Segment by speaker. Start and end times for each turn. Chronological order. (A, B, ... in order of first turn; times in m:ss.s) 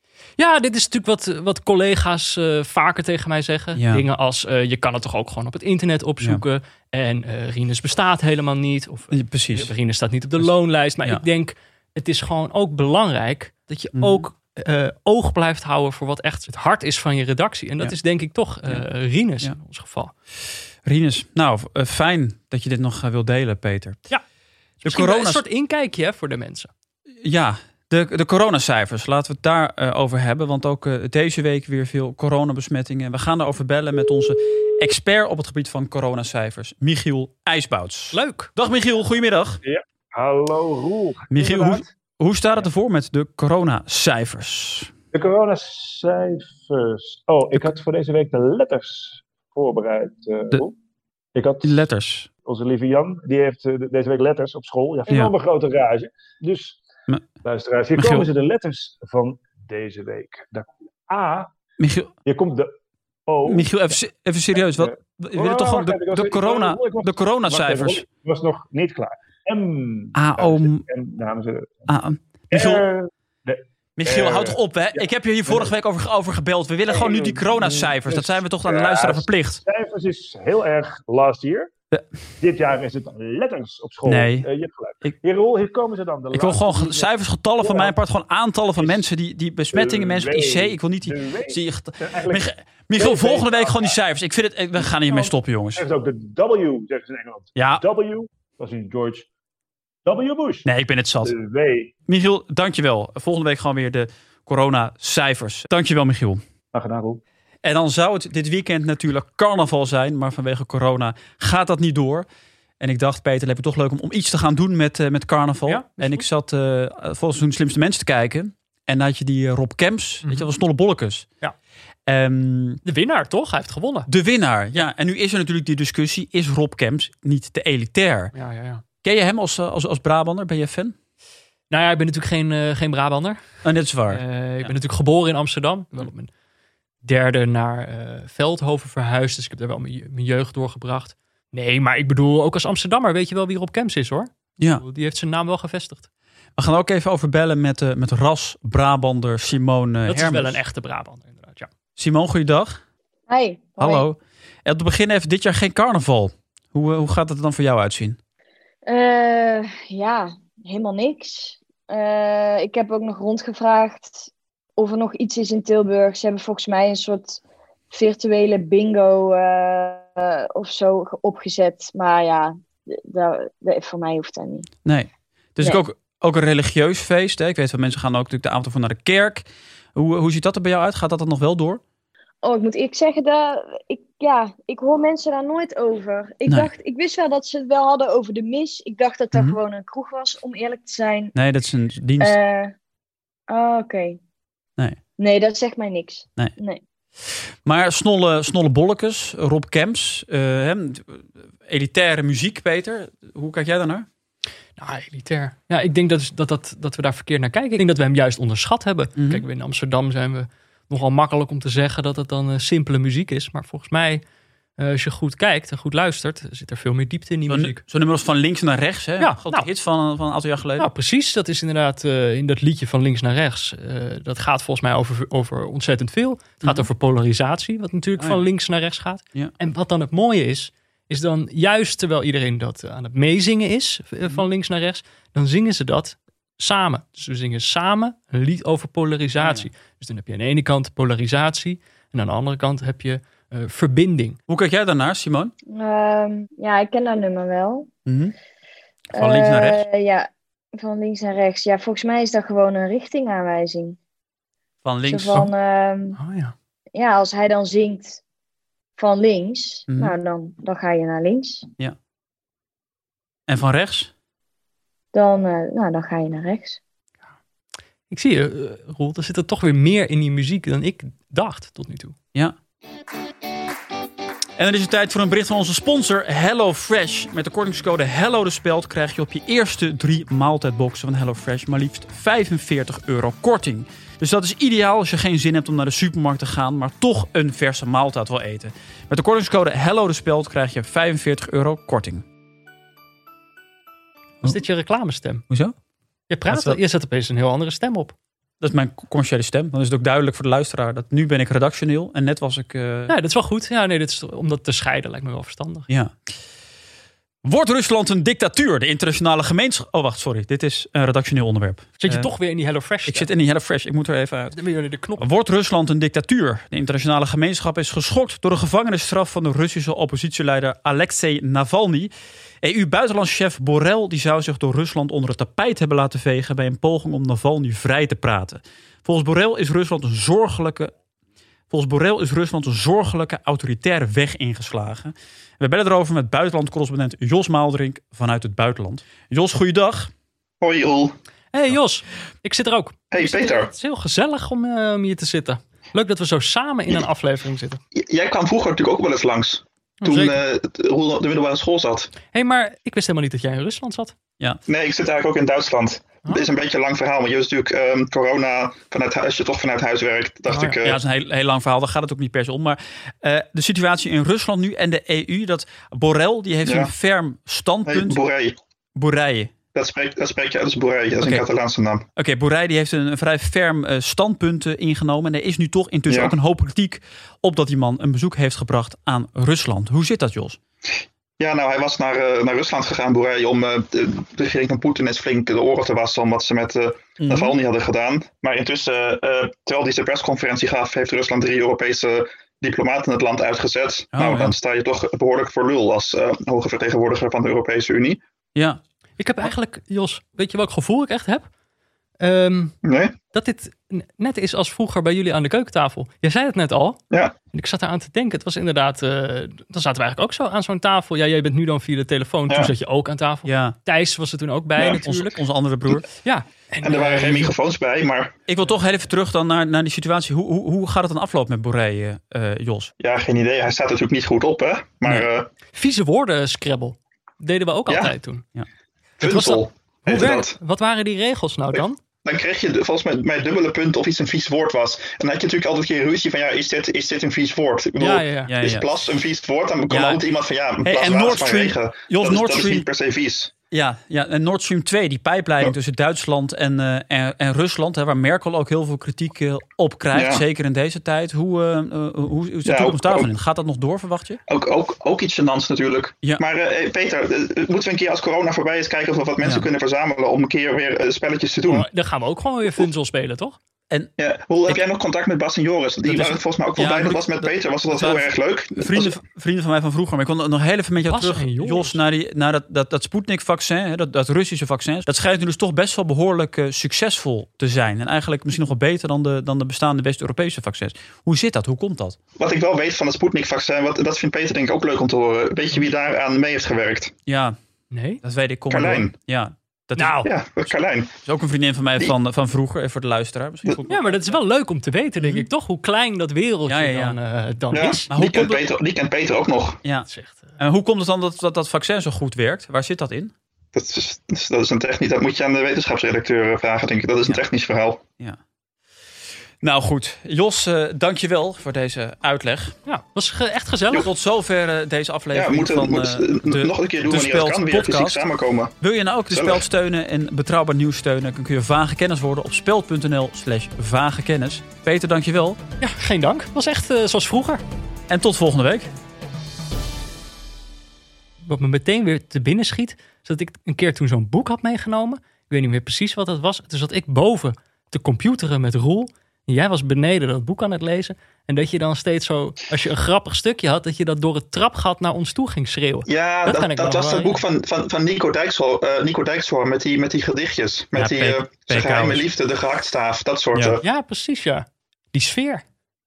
0:00.4-0:20.1 A
0:03.7-0:04.0 B
0:09.1-0:09.7 B
0:14.0-0:14.2 B
0:20.8-0:24.0 B
0:24.8-0:26.7 A
0:24.8-0:25.4 B
0:27.2-0:39.6 B
0:38.1-0:38.5 A
0:39.6-0:41.8 C
0:41.3-0:44.9 B
0:45.1-0:50.8 C
0:51.3-0:51.8 C
0:51.6-0:52.3 B
0:52.4-0:56.8 C
0:57.4-1:01.5 C
0:58.0-0:58.3 B
1:01.8-1:02.1 B
1:02.2-1:02.8 C
1:03.3-1:03.7 C
1:03.4-1:08.0 B
1:04.5-1:11.9 C
1:10.2-1:10.8 B
1:11.9-1:12.8 B
1:12.5-1:15.7 C
1:14.0-1:19.6 B
1:16.9-1:21.7 C
1:22.4-1:28.0 C
1:24.0-1:24.5 B
1:26.3-1:35.8 B
1:28.8-1:29.0 C
1:29.7-1:34.0 C
1:34.8-1:39.3 C
1:37.6-1:37.8 B
1:40.0-1:40.7 C
1:40.6-1:41.3 B
1:41.2-1:41.9 C
1:42.1-1:46.4 B
1:46.7-1:47.2 C
1:47.6-1:52.3 B
1:52.8-2:01.2 B
1:55.6-1:56.2 A
2:02.1-2:02.8 B
2:02.8-2:04.1 A
2:04.1-2:08.3 B
2:08.3-2:08.8 A
2:09.0-2:10.9 B
2:11.7-2:13.4 A
2:13.6-2:14.7 B
2:14.1-2:16.3 A
2:17.0-2:26.1 A
2:26.6-2:30.6 B
2:30.1-2:31.7 A
2:32.0-2:32.8 B
2:33.3-2:34.0 D
2:33.8-2:38.2 B
2:38.8-2:47.4 D
2:47.9-2:54.7 D
2:54.8-3:01.8 B
3:02.4-3:11.3 D
3:11.3-3:12.4 B
3:12.2-3:12.7 D
3:13.5-3:14.2 D
3:15.2-3:16.8 D
3:17.6-3:24.0 B
3:24.8-3:34.2 A
3:29.2-3:29.4 B
3:34.8-3:37.8 A
3:37.5-3:40.9 B
3:39.2-3:39.7 A
3:40.8-4:04.4 A
3:59.4-3:59.7 B
4:04.5-4:05.5 B
4:05.7-4:07.9 D
4:08.0-4:08.3 B
4:09.1-4:09.8 B
4:09.1-4:14.0 D
4:14.8-4:15.5 B
4:15.1-4:16.2 D
4:16.2-4:16.5 A
4:16.9-4:18.2 D
4:19.0-4:21.7 D
4:23.5-4:24.1 B
4:25.1-4:26.8 D
4:28.1-4:32.1 A
4:34.6-4:52.2 B
4:54.4-4:55.4 A
4:56.3-4:58.1 A
4:56.5-4:56.8 B
4:58.6-5:03.1 B
5:03.1-5:05.9 A
5:07.4-5:12.3 B
5:12.0-5:13.3 A
5:13.0-5:14.6 B
5:14.5-5:15.2 A
5:15.2-5:22.1 B
5:22.6-5:30.9 B
5:31.7-5:40.1 B
5:40.6-5:41.2 E
5:41.5-5:47.8 A
5:43.1-5:43.7 E
5:47.9-5:52.1 E
5:50.0-5:50.4 A
5:52.3-5:54.2 A
5:54.6-6:01.0 E
6:00.5-6:00.8 A
6:00.8-6:08.2 B
6:06.6-6:06.9 E
6:07.8-6:08.6 E
6:09.0-6:09.5 B
6:09.7-6:12.0 E
6:12.2-6:20.6 B
6:16.1-6:16.4 E
6:21.4-6:38.2 E
6:27.2-6:27.6 B
6:34.1-6:34.5 B
6:38.5-6:38.8 B
6:39.2-6:41.5 A
6:42.2-6:42.8 A
6:42.8-6:43.2 E
6:43.3-6:47.0 A
6:47.5-6:55.4 A
6:53.4-6:53.7 B
6:54.8-6:55.0 E
6:55.0-6:56.0 B
6:56.0-6:57.5 A
6:56.8-6:58.4 E
6:58.5-7:02.9 B
7:03.0-7:05.5 E
7:05.7-7:08.4 A
7:07.9-7:08.1 E
7:09.2-7:12.0 A
7:09.2-7:10.6 E
7:12.2-7:23.5 E
7:18.0-7:18.5 A
7:18.5-7:18.8 B
7:19.9-7:20.2 B
7:20.8-7:22.8 B
7:23.7-7:34.4 B
7:30.1-7:30.4 E
7:32.6-7:33.3 E
7:34.5-7:41.9 E
7:41.6-7:43.6 A
7:44.2-7:49.2 E
7:46.0-8:02.2 B
7:51.0-7:52.0 A
8:02.4-8:07.1 E
8:07.3-8:07.6 B
8:07.9-8:08.2 A
8:08.2-8:10.2 B
8:08.7-8:09.1 E
8:10.0-8:10.3 A
8:10.2-8:11.1 E
8:11.2-8:14.3 B
8:13.9-8:18.1 A
8:16.7-8:17.2 B
8:17.7-8:19.8 E
8:18.1-8:18.6 B
8:20.0-8:20.6 A
8:20.6-8:23.3 B
8:23.7-8:28.0 E
8:29.6-8:32.7 B
8:32.8-8:34.1 A
8:33.9-8:38.2 B
8:35.3-8:39.7 E
8:38.8-8:45.6 B
8:45.8-8:47.6 A
8:48.1-8:48.9 B
8:51.4-9:07.4 A
9:06.0-9:13.8 E
9:10.9-9:12.2 B
9:13.8-9:15.6 A